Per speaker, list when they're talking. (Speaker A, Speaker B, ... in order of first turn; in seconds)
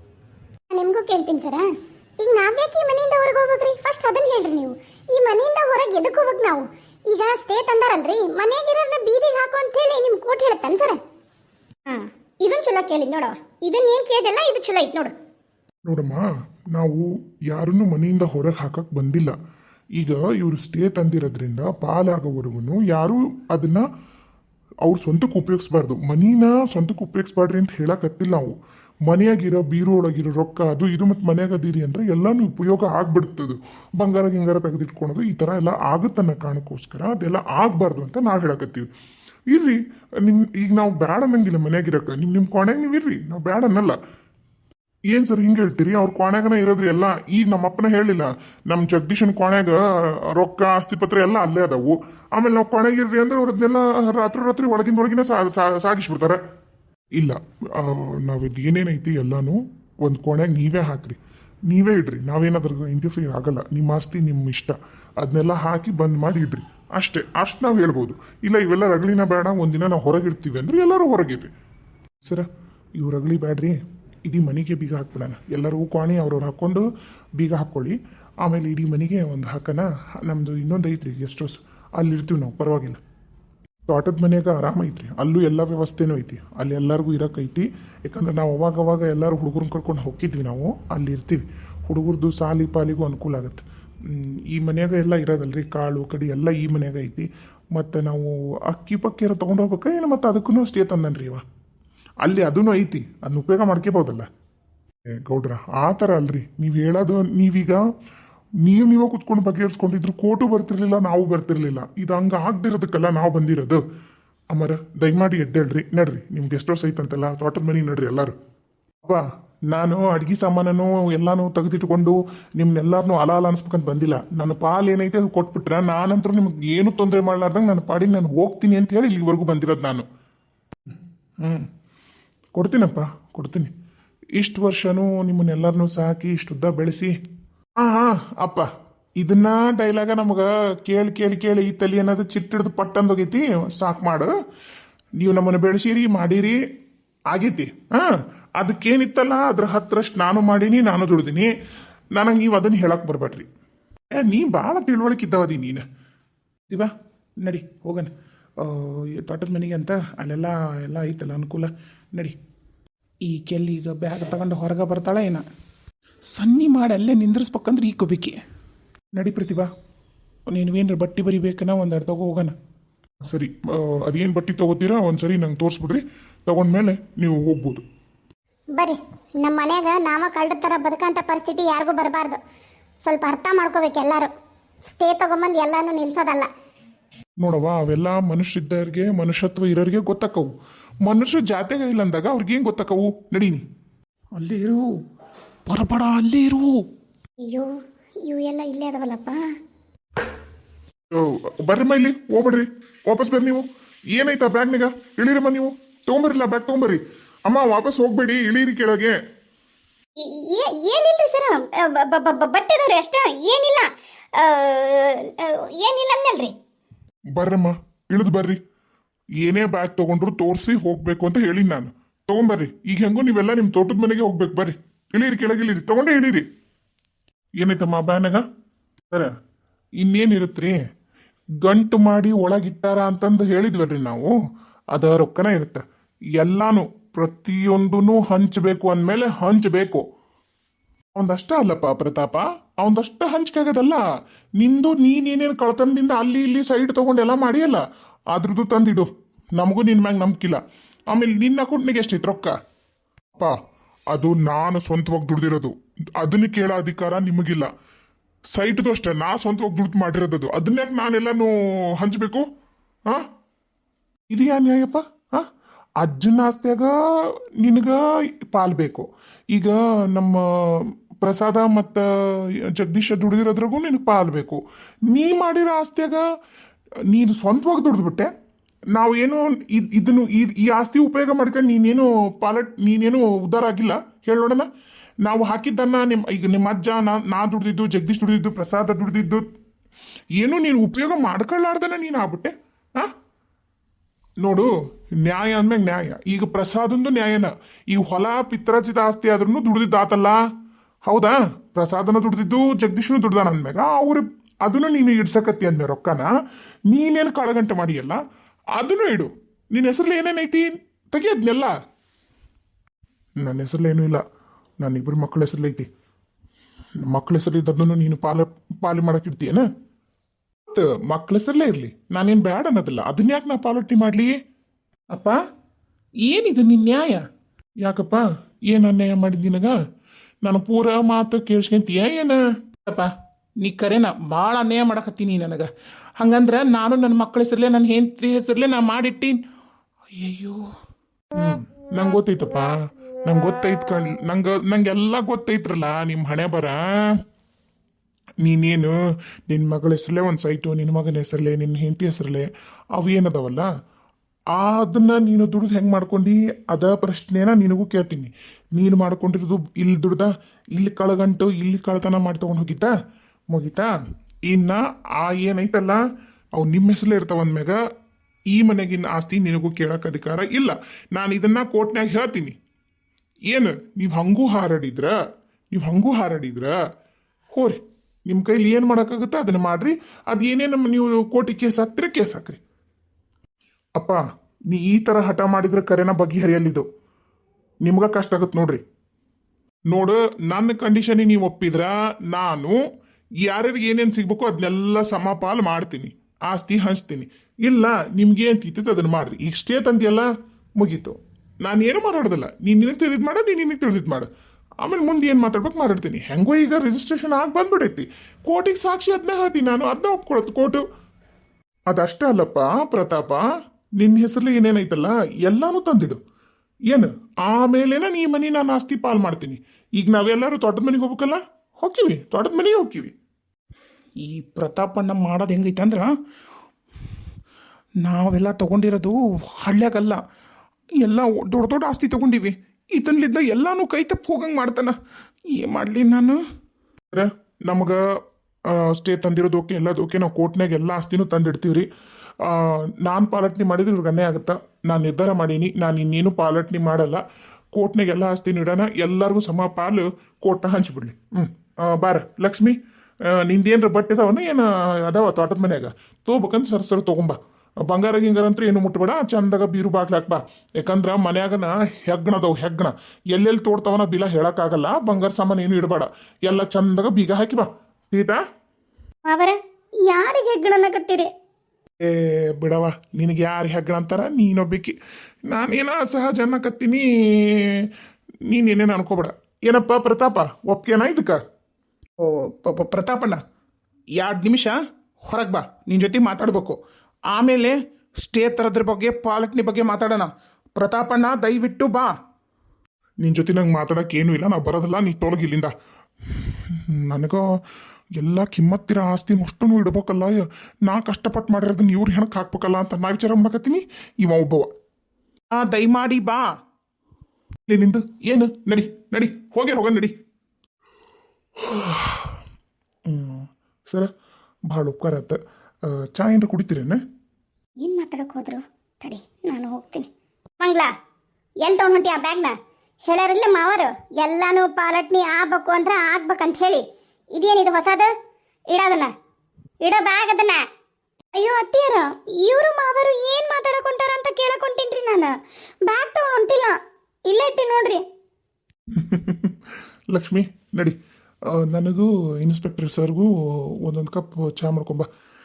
Speaker A: 0.7-1.7, 2.2-11.0, 11.9-15.1, 178.8-182.4, 183.0-184.3, 184.9-186.5, 197.4-197.7, 198.2-199.4, 210.2-216.5, 469.2-471.3, 517.8-520.9, 521.6-522.5, 523.1-528.1, 528.7-529.1, 529.8-530.6, 531.3-535.3, 535.9-538.0
Speaker B: 15.9-19.4, 20.0-23.8, 24.9-28.5, 29.1-38.9, 39.5-44.0, 45.1-56.4, 57.2-61.2, 61.7-71.5, 73.0-76.8, 77.4-83.0, 83.9-101.4, 102.2-104.3, 105.1-107.8, 108.6-113.8, 114.5-118.3, 119.0-130.1, 131.4-131.7, 132.6-133.7, 134.4-137.1, 137.8-138.7, 139.2-144.3, 145.2-146.6, 147.3-151.5, 152.2-153.5, 154.2-155.8, 157.4-162.4, 163.3-165.4, 166.4-168.3, 169.2-169.7, 170.5-172.5, 173.3-177.8, 187.4-190.5, 191.0-193.6, 201.1-209.2, 217.3-218.6, 219.4-226.4, 227.6-228.4, 230.0-230.8, 231.6-234.3, 234.9-235.8, 236.4-240.1, 241.2-244.0, 244.6-252.5, 254.1-257.7, 258.5-262.5, 264.3-265.5, 266.0-266.9, 267.6-276.2, 277.1-278.3, 278.9-284.7, 285.2-289.5, 290.4-293.1, 294.4-294.7, 295.2-300.4, 301.1-306.3, 306.9-308.2, 308.8-311.7, 313.4-314.2, 314.8-315.9, 317.0-319.7, 320.7-324.4, 327.8-329.8, 330.4-332.4, 341.4-342.7, 343.2-347.2, 348.4-349.0, 349.5-353.7, 354.5-362.9, 363.5-363.9, 364.5-366.0, 366.6-367.8, 368.5-372.6, 373.5-375.1, 375.7-376.8, 377.5-382.6, 384.0-386.9, 387.8-388.8, 389.9-392.8, 393.4-404.3, 404.8-410.8, 411.9-413.4, 414.0-416.2, 416.9-423.1, 437.1-438.0, 438.7-441.9, 442.4-447.2, 447.8-452.8, 453.3-468.4, 472.0-475.0, 475.5-477.9, 478.5-481.4, 493.2-495.7, 496.2-497.4, 498.2-504.7, 507.7-510.1, 511.6-512.4, 513.1-514.1, 514.7-517.0, 538.9-541.0, 541.5-545.1
Speaker C: 167.8-168.2, 194.4-194.9, 195.7-196.8, 325.1-325.4, 326.2-327.2, 332.9-339.4, 340.2-340.7, 424.2-426.1, 428.0-430.2, 431.0-434.9, 435.5-436.4, 482.2-483.4, 484.2-492.1, 505.5-506.5